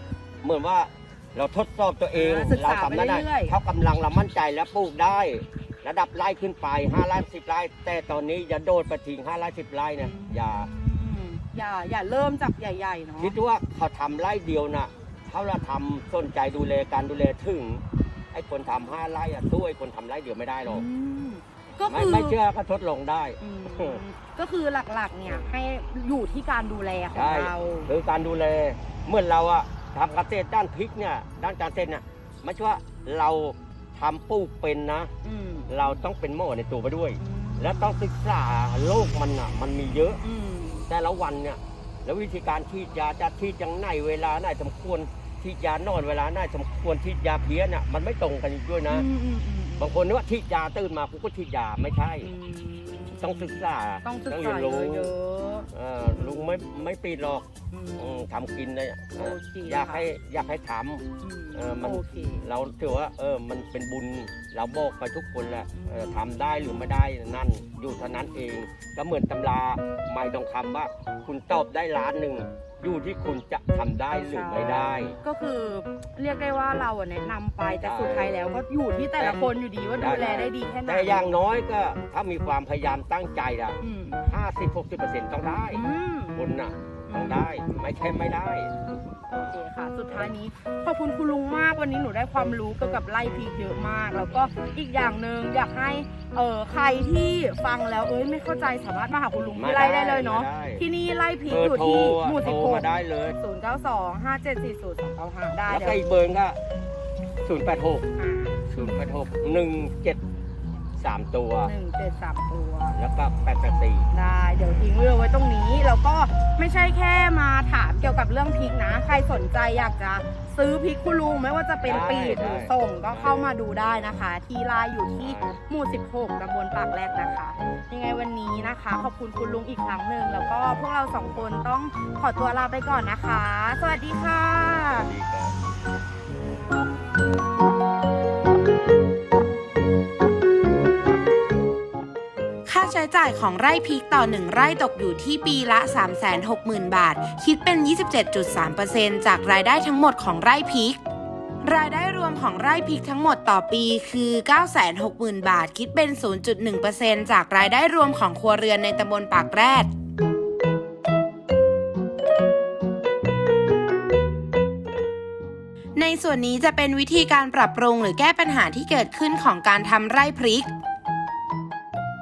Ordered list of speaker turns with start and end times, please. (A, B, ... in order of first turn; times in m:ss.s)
0:00.4-0:10.7 A
0:02.1-0:03.6 B
0:10.0-0:13.4 B
0:13.2-0:20.9 A
0:20.6-0:22.4 B
0:21.9-0:24.0 A
0:23.4-0:27.9 B
0:27.1-0:35.1 A
0:35.2-0:35.7 B
0:35.7-0:40.2 A
0:37.2-0:38.0 B
0:40.2-0:40.9 B
0:40.9-0:49.1 A
0:48.9-0:50.0 B
0:49.8-0:52.3 A
0:52.2-0:56.6 B
0:53.2-0:55.1 A
0:55.7-0:57.5 A
0:57.7-0:58.2 B
0:58.0-1:15.2 A
0:59.2-1:00.1 B
1:01.2-1:02.5 B
1:14.2-1:21.4 B
1:17.8-1:18.4 A
1:19.2-1:25.8 A
1:23.8-1:24.3 B
1:25.7-1:26.4 B
1:26.4-1:28.7 A
1:27.1-1:27.5 B
1:29.2-1:46.0 B
1:39.6-1:40.8 A
1:41.5-1:43.4 A
1:45.7-1:46.6 A
1:47.4-1:48.1 A
1:48.2-1:49.0 B
1:48.7-1:50.2 A
1:51.0-1:51.7 A
1:51.6-1:53.0 B
1:53.0-1:54.1 A
1:54.1-2:15.1 B
2:01.8-2:03.5 A
2:05.1-2:05.6 A
2:14.7-2:15.6 A
2:22.7-2:31.0 C
2:31.6-2:39.9 C
2:46.0-2:50.7 C